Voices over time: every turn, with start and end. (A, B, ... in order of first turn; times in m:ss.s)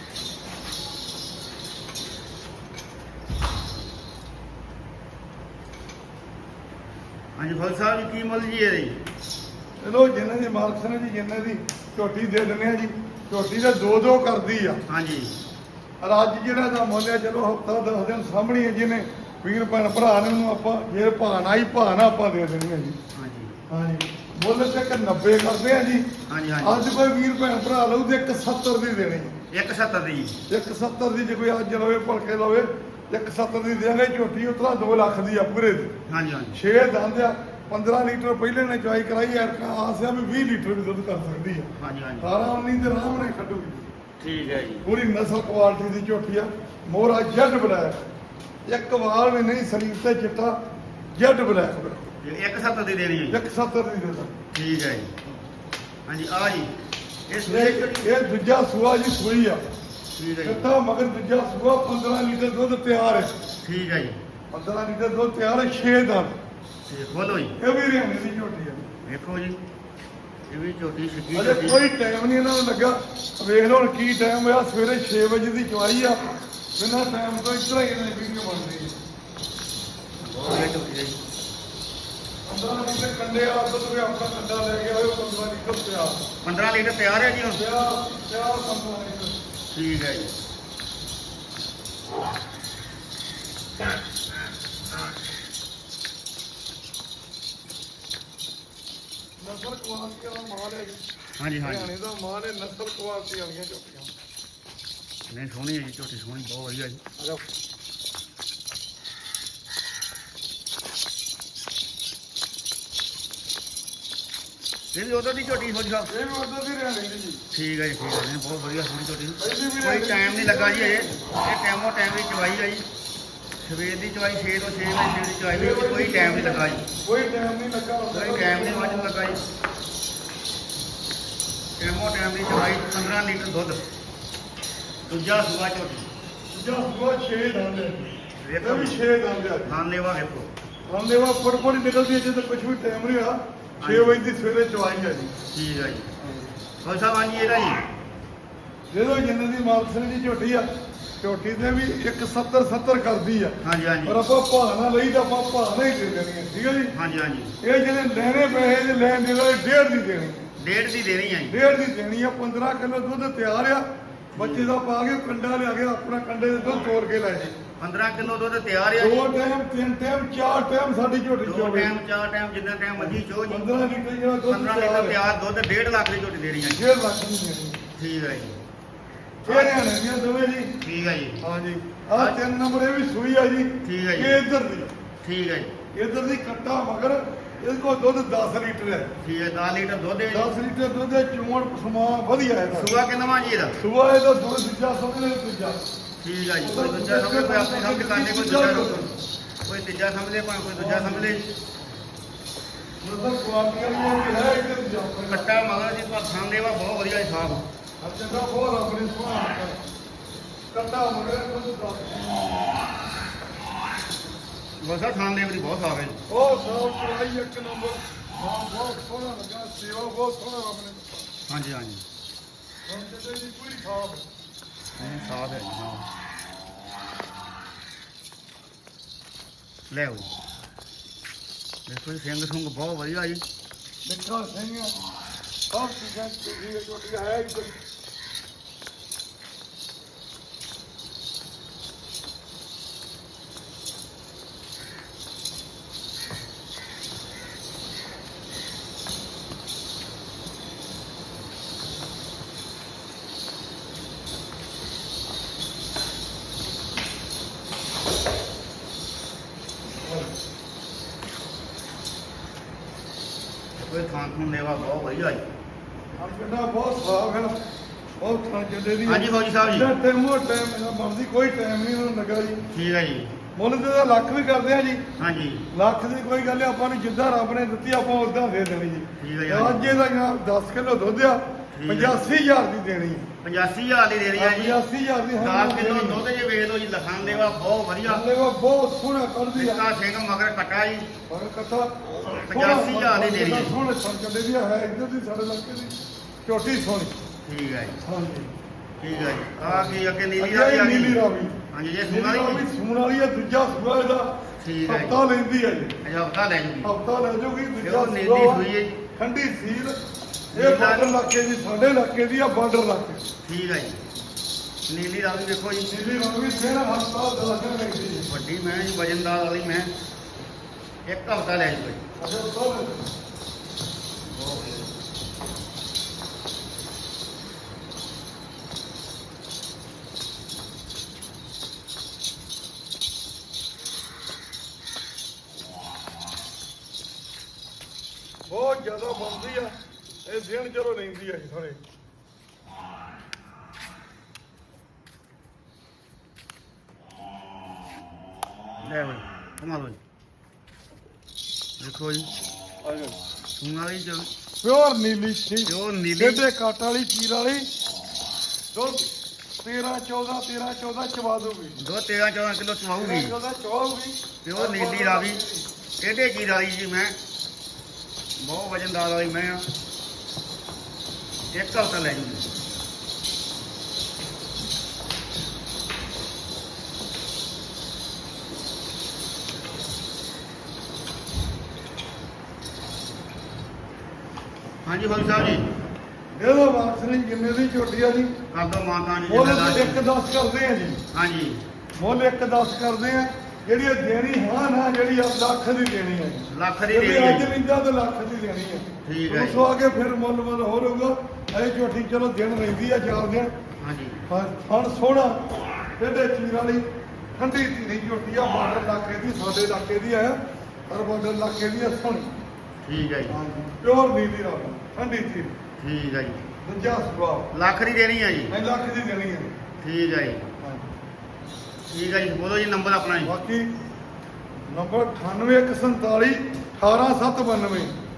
0:07.4-0:09.0 A
0:09.8-0:14.8 B
0:14.9-0:15.4 A
0:16.0-0:23.0 B
0:23.1-0:23.6 A
0:23.7-0:26.1 B
0:26.3-0:26.8 A
0:26.6-0:29.4 B
0:29.5-0:30.4 A
0:30.5-0:35.9 B
0:36.1-0:36.6 A
0:36.5-0:43.9 B
0:41.8-0:42.3 A
0:44.2-0:44.8 A
0:44.8-0:48.0 B
0:48.7-0:50.6 B
0:51.2-0:52.0 B
0:52.2-0:53.4 A
0:53.3-0:54.3 B
0:54.5-0:55.2 A
0:56.1-0:56.7 A
0:57.3-0:58.1 A
0:57.4-0:59.6 B
1:00.1-1:00.7 A
1:00.4-1:03.3 B
1:03.6-1:04.2 A
1:04.5-1:06.3 B
1:06.9-1:07.6 A
1:07.6-1:08.9 B
1:09.1-1:09.6 A
1:10.5-1:11.8 A
1:11.3-1:19.0 B
1:20.2-1:21.2 A
1:22.5-1:26.3 B
1:26.4-1:27.6 A
1:27.5-1:29.4 B
1:29.7-1:30.3 A
1:39.4-1:41.0 B
1:41.4-1:41.9 A
1:41.6-1:44.1 B
1:45.3-1:47.0 A
1:54.9-1:56.1 A
1:56.1-1:57.4 B
1:57.5-2:02.8 A
1:59.4-2:01.3 B
2:03.6-2:06.8 A
2:05.5-2:09.1 B
2:08.1-2:09.4 A
2:11.8-2:13.8 A
2:15.1-2:16.1 A
2:16.5-2:19.8 B
2:18.4-2:19.0 A
2:19.6-2:20.5 A
2:20.9-2:25.4 B
2:23.8-2:24.2 A
2:25.5-2:26.1 A
2:26.2-2:26.5 B
2:26.8-2:27.8 A
2:28.9-2:30.7 B
2:31.2-2:36.9 B
2:33.6-2:34.2 A
2:36.9-2:37.6 A
2:37.6-2:40.5 B
2:40.6-2:41.6 A
2:41.5-2:47.6 B
2:44.3-2:44.7 A
2:47.8-2:49.3 A
2:49.0-2:51.9 B
2:51.4-2:53.7 A
2:53.0-2:55.2 B
2:54.5-2:56.8 A
2:56.8-2:57.8 B
2:57.9-2:58.6 A
2:59.4-2:59.9 A
2:59.4-3:00.7 B
3:00.8-3:01.4 A
3:01.4-3:04.9 B
3:02.1-3:02.4 A
3:03.8-3:04.4 A
3:05.2-3:05.8 A
3:05.9-3:09.1 B
3:09.2-3:10.5 A
3:10.3-3:12.9 B
3:12.7-3:13.8 A
3:13.8-3:15.8 B
3:16.2-3:21.5 A
3:16.6-3:19.1 B
3:20.8-3:21.4 B
3:23.0-3:25.6 B
3:25.3-3:27.6 A
3:28.0-3:29.8 B
3:30.7-3:32.8 B
3:34.8-3:36.2 A
3:36.3-3:41.3 B
3:41.5-3:42.0 A
3:42.9-3:44.3 B
3:44.9-3:46.1 A
3:49.9-3:50.3 A
3:51.9-3:53.4 A
3:54.0-3:55.0 B
3:55.7-3:57.8 B
4:20.0-4:20.3 B
4:23.8-4:25.4 A
4:26.2-4:27.6 B
4:28.2-4:32.6 B
4:29.1-4:29.9 A
4:32.7-4:33.4 A
4:33.6-4:35.1 B
4:35.2-4:35.7 A
4:35.7-4:43.3 B
4:39.2-4:40.0 A
4:41.7-4:42.2 A
4:43.4-4:44.8 A
4:44.4-4:46.2 B
4:45.4-4:48.2 A
4:48.0-4:49.9 B
4:49.6-4:51.1 A
4:51.3-4:57.2 B
4:52.4-4:53.8 A
4:57.4-4:58.0 A
4:58.0-4:58.5 B
4:59.0-5:01.2 A
4:59.6-5:04.3 B
5:01.7-5:02.6 A
5:04.6-5:05.2 A
5:04.8-5:06.0 B
5:06.0-5:06.9 A
5:06.8-5:10.0 B
5:07.8-5:09.0 A
5:10.5-5:11.1 A
5:10.5-5:13.3 B
5:13.4-5:14.0 A
5:14.9-5:15.9 A
5:15.9-5:18.3 B
5:18.2-5:19.9 A
5:21.1-5:22.0 A
5:22.2-5:23.0 B
5:24.3-5:24.9 A
5:38.5-5:41.8 B
5:48.8-5:50.0 A
5:51.8-5:52.3 A
5:52.8-5:53.2 B
5:53.6-5:54.3 A
5:54.6-5:57.7 B
5:55.6-5:56.4 A
5:58.7-5:59.1 B
5:59.6-6:01.8 B
6:01.8-6:03.3 A
6:03.0-6:05.6 B
6:04.4-6:05.4 A
6:06.0-6:07.2 A
6:08.4-6:09.6 A
6:11.5-6:12.5 A
6:24.8-6:25.7 A
6:26.4-6:28.4 B
6:28.5-6:30.0 A
6:29.3-6:31.0 B
6:31.1-6:31.6 A
6:32.0-6:43.5 B
6:36.5-6:37.5 A
6:39.0-6:39.6 A
6:43.8-6:44.3 A
6:44.3-6:52.3 B
6:52.8-6:53.4 A
6:53.3-6:55.6 B
6:55.8-6:56.4 A
6:56.6-6:57.5 B
6:57.5-6:58.5 A
6:58.5-6:59.6 B
6:59.8-7:00.5 A
7:00.6-7:00.9 B
7:01.9-7:03.3 A
7:03.2-7:03.7 B
7:04.7-7:08.0 B